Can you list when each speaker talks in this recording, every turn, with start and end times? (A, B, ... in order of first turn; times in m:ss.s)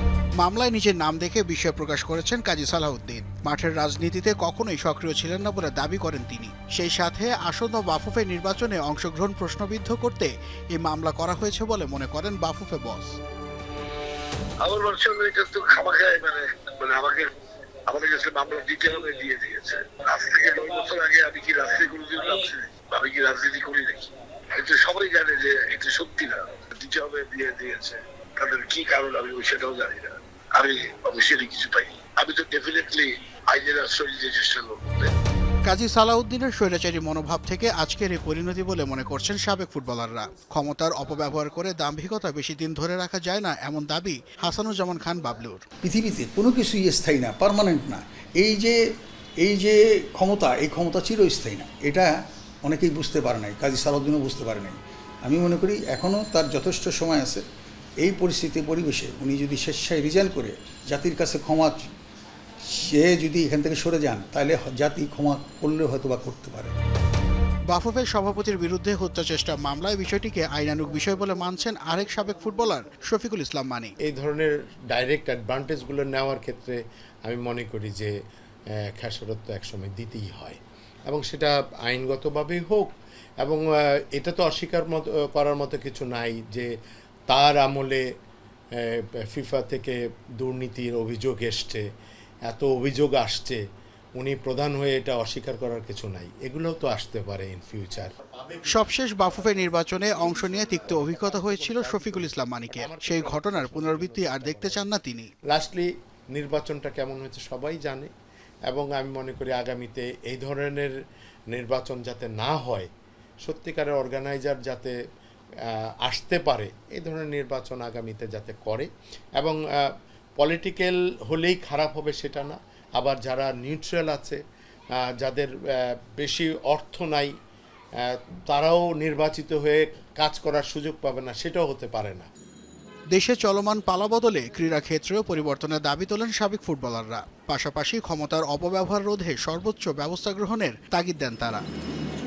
0:00.4-0:13.2 A
0:14.6-0:17.3 B
0:17.9-0:35.1 B
0:35.6-0:45.6 A
0:45.8-0:48.8 C
0:49.4-0:57.4 C
0:58.0-1:01.9 C
1:02.6-1:06.7 C
1:07.7-1:13.9 A
1:14.0-1:18.1 D
1:18.9-1:22.9 D
1:24.1-1:26.7 D
1:27.3-1:28.0 D
1:28.8-1:31.8 D
1:32.5-1:33.6 D
1:34.2-1:38.7 D
1:38.7-1:45.3 A
1:40.3-1:44.9 D
1:45.5-1:48.1 D
1:48.7-1:50.9 D
1:51.5-1:52.9 D
1:53.4-1:55.0 D
1:56.0-1:59.6 D
2:00.4-2:04.4 D
2:05.0-2:07.3 D
2:08.0-2:12.3 D
2:13.1-2:21.6 A